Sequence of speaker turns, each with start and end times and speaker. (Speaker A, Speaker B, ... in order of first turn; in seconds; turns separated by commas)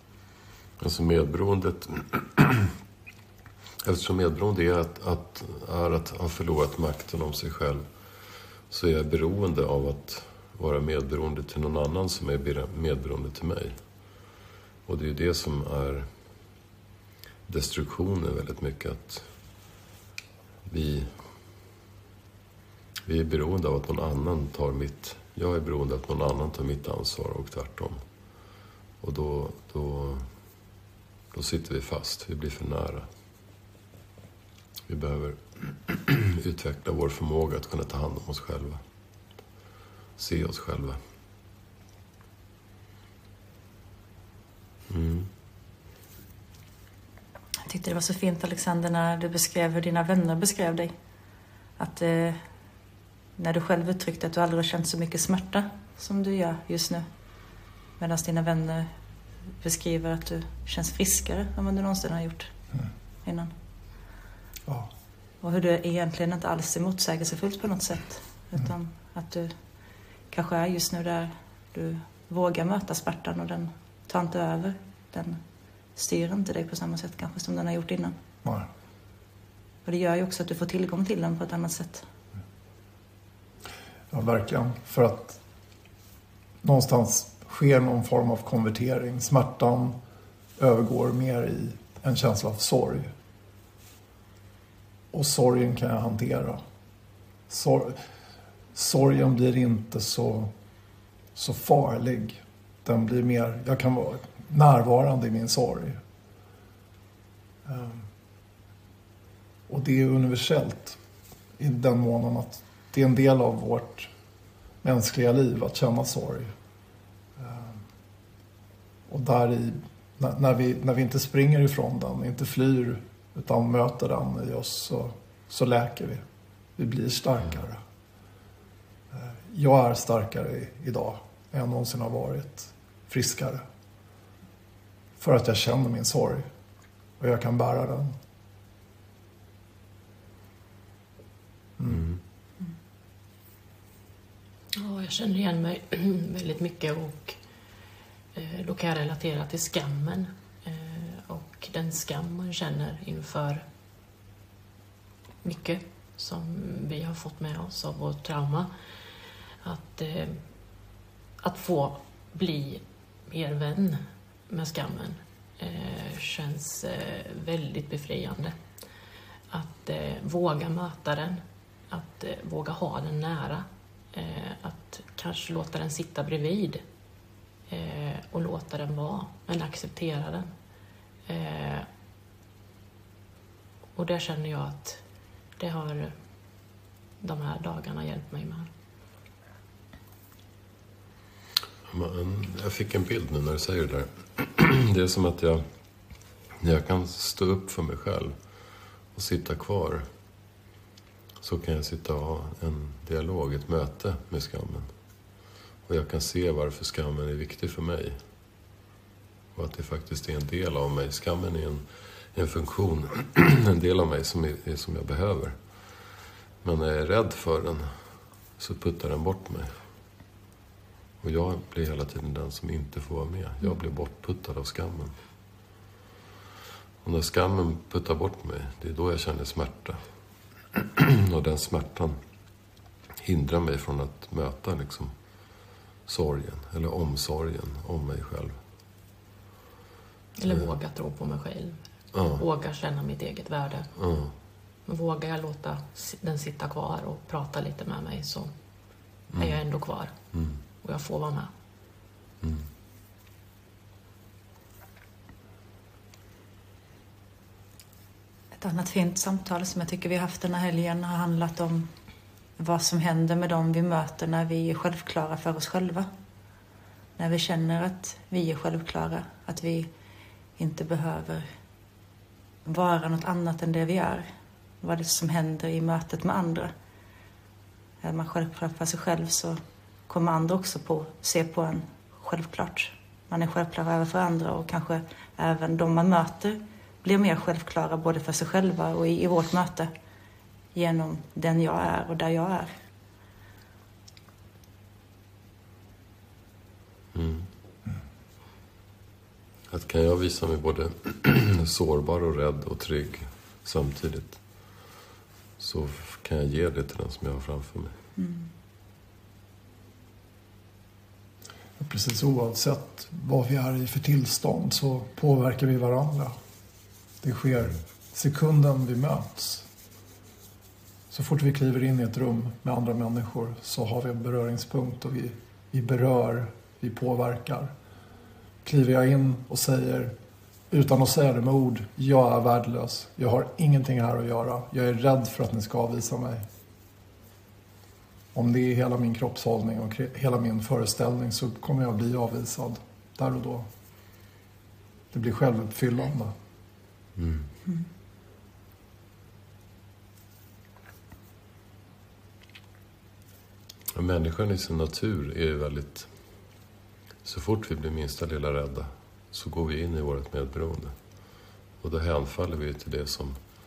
Speaker A: 0.8-2.7, Speaker A: 3.8-7.8, Speaker A: 8.7-13.8, Speaker A: 14.9-16.1, Speaker A: 17.5-19.3, Speaker A: 20.7-21.1, Speaker A: 23.1-28.0, Speaker A: 29.0-30.3, Speaker A: 31.3-33.1, Speaker A: 34.9-38.8, Speaker A: 40.2-41.0, Speaker A: 44.9-45.3, Speaker B: 47.7-50.9, Speaker B: 51.8-52.4, Speaker B: 53.4-57.0, Speaker B: 58.0-58.9, Speaker B: 59.6-62.5, Speaker B: 63.2-63.5, Speaker B: 65.4-69.5, Speaker B: 70.3-75.4, Speaker B: 76.0-78.1, Speaker B: 79.8-82.0, Speaker C: 84.1-85.4, Speaker C: 86.6-90.0, Speaker C: 90.6-93.1, Speaker C: 95.1-96.6, Speaker C: 97.5-98.0, Speaker C: 98.7-100.5, Speaker C: 101.3-106.0, Speaker C: 107.7-108.1, Speaker C: 109.7-111.0, Speaker C: 111.6-114.1, Speaker C: 114.8-116.5, Speaker C: 117.4-117.8, Speaker C: 119.1-126.2, Speaker C: 126.8-127.8, Speaker C: 129.1-133.6, Speaker C: 135.2-136.5, Speaker C: 137.2-138.1, Speaker A: 141.9-142.2, Speaker D: 144.8-147.4, Speaker D: 148.3-153.6, Speaker D: 155.4-160.4, Speaker D: 161.4-168.6, Speaker D: 169.5-176.8, Speaker D: 177.7-180.5, Speaker D: 181.3-181.9, Speaker D: 184.0-185.0, Speaker D: 185.6-186.2, Speaker D: 187.2-188.7, Speaker A: 191.9-195.7, Speaker A: 196.6-198.4, Speaker A: 199.1-200.1, Speaker A: 201.4-204.9, Speaker A: 205.9-208.2, Speaker A: 209.6-215.6, Speaker A: 216.6-218.0, Speaker A: 218.6-219.7, Speaker A: 221.2-225.2, Speaker A: 227.0-230.0, Speaker A: 230.8-232.2, Speaker A: 233.2-235.1, Speaker A: 236.1-238.6, Speaker D: 240.4-241.8, Speaker A: 242.1-242.4, Speaker D: 242.4-243.9, Speaker A: 244.0-244.3, Speaker D: 244.9-248.5, Speaker A: 249.3-249.6, Speaker D: 249.4-250.1, Speaker A: 250.3-250.6, Speaker D: 250.8-251.5, Speaker B: 258.6-261.9, Speaker B: 262.6-266.1, Speaker B: 267.2-269.9, Speaker B: 270.6-271.4, Speaker B: 272.6-274.3, Speaker B: 274.8-276.7, Speaker B: 278.0-289.9, Speaker B: 290.7-292.7, Speaker A: 297.1-297.5, Speaker A: 299.7-304.4, Speaker A: 305.6-307.9, Speaker B: 308.2-308.5, Speaker C: 311.8-316.4, Speaker C: 317.2-319.7, Speaker C: 321.1-327.7, Speaker C: 328.6-330.1, Speaker C: 330.7-336.4, Speaker C: 338.3-343.7, Speaker C: 345.1-346.3, Speaker A: 347.2-347.5, Speaker A: 353.9-356.1, Speaker A: 357.2-360.9, Speaker A: 361.8-363.4